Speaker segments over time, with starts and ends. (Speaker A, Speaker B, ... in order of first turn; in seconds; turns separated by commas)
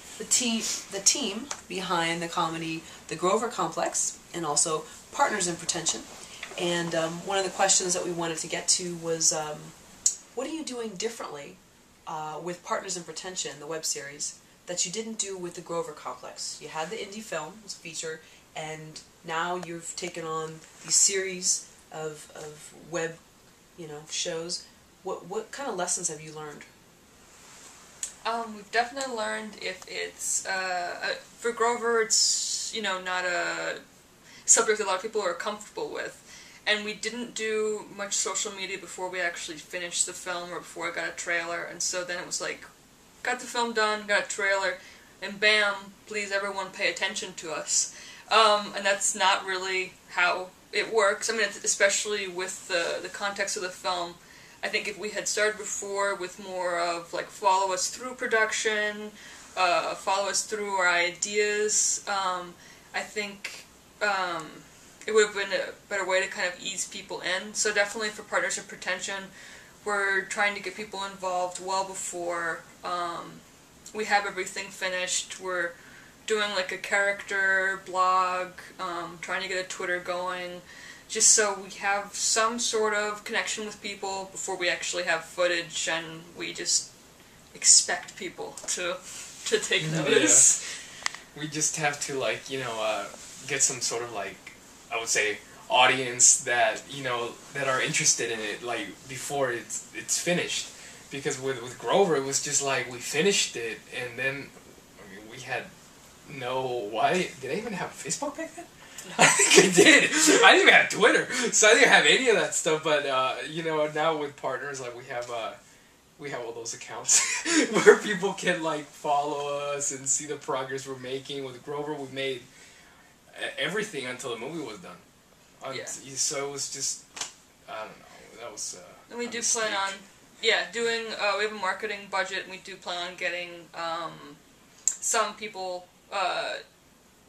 Speaker A: 0.2-9.8, Speaker A: 10.3-23.2, Speaker A: 23.8-26.7, Speaker B: 28.2-33.8, Speaker B: 34.5-42.7, Speaker B: 43.2-69.3, Speaker B: 69.8-75.8, Speaker B: 76.3-86.9, Speaker B: 87.5-90.7, Speaker C: 89.8-90.5, Speaker C: 91.3-105.7, Speaker C: 106.2-115.6, Speaker C: 116.2-122.5, Speaker C: 123.3-125.0, Speaker C: 125.6-127.0, Speaker B: 125.7-126.0, Speaker C: 127.7-129.9, Speaker B: 129.1-134.4, Speaker B: 135.0-136.6